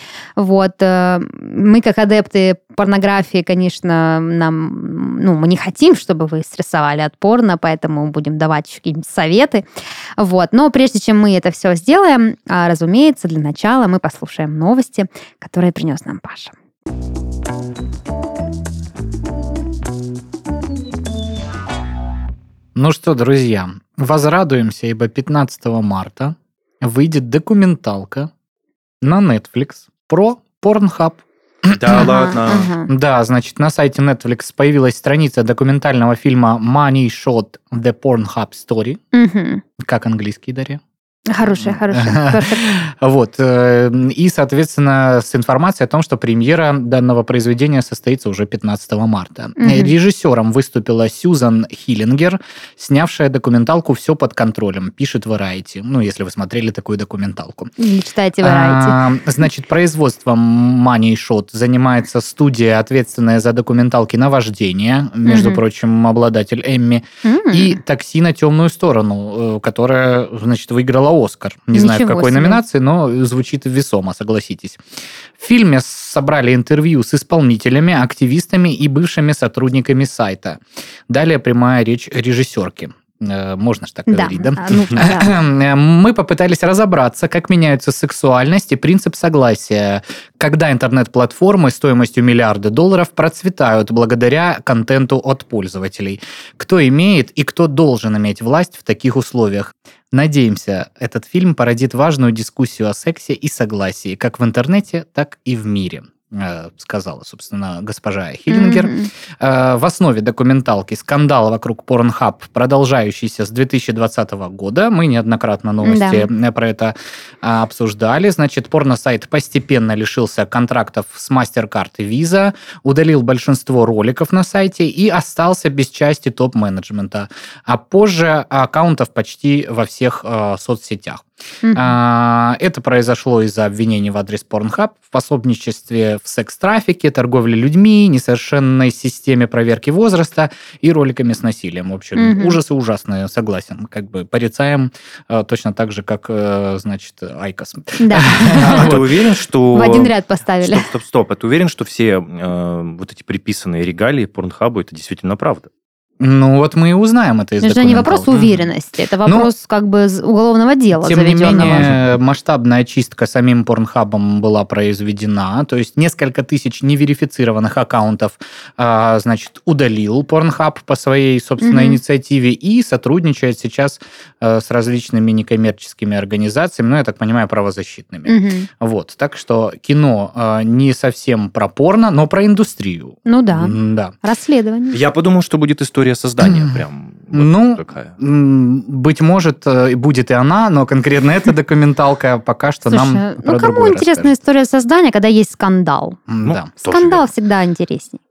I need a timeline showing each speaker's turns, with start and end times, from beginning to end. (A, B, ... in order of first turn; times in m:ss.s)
0:00.4-0:09.7 A
0:10.2-0:16.5 A
0:22.8-0:28.3 B
0:29.0-0:32.1 B
0:31.7-0:32.7 C
0:31.9-0:32.9 A
0:32.9-0:39.0 B
0:39.1-0:39.6 A
0:39.8-0:40.8 B
0:41.3-0:42.6 A
0:41.5-0:57.7 B
0:49.6-0:49.9 A
0:57.8-0:59.0 A
0:58.4-1:14.8 B
1:05.2-1:05.6 A
1:07.2-1:07.8 A
1:11.7-1:12.6 A
1:15.4-2:29.2 B
1:24.1-1:25.4 A
1:48.5-1:49.1 A
1:55.8-1:56.3 A
2:11.6-2:12.0 A
2:22.2-2:22.6 A
2:28.0-2:28.9 A
2:28.6-2:35.7 C
2:29.7-2:30.9 A
2:36.2-2:38.7 B
2:37.6-2:41.9 A
2:39.2-2:39.5 B
2:41.0-3:04.1 B
2:41.6-2:42.0 C
2:51.6-2:52.0 A
2:58.3-2:58.7 A
3:03.3-3:05.0 A
3:04.9-3:08.2 C
3:06.4-3:14.3 B
3:12.9-3:16.2 A
3:16.3-3:16.7 B
3:16.4-3:17.2 C
3:16.8-3:18.2 A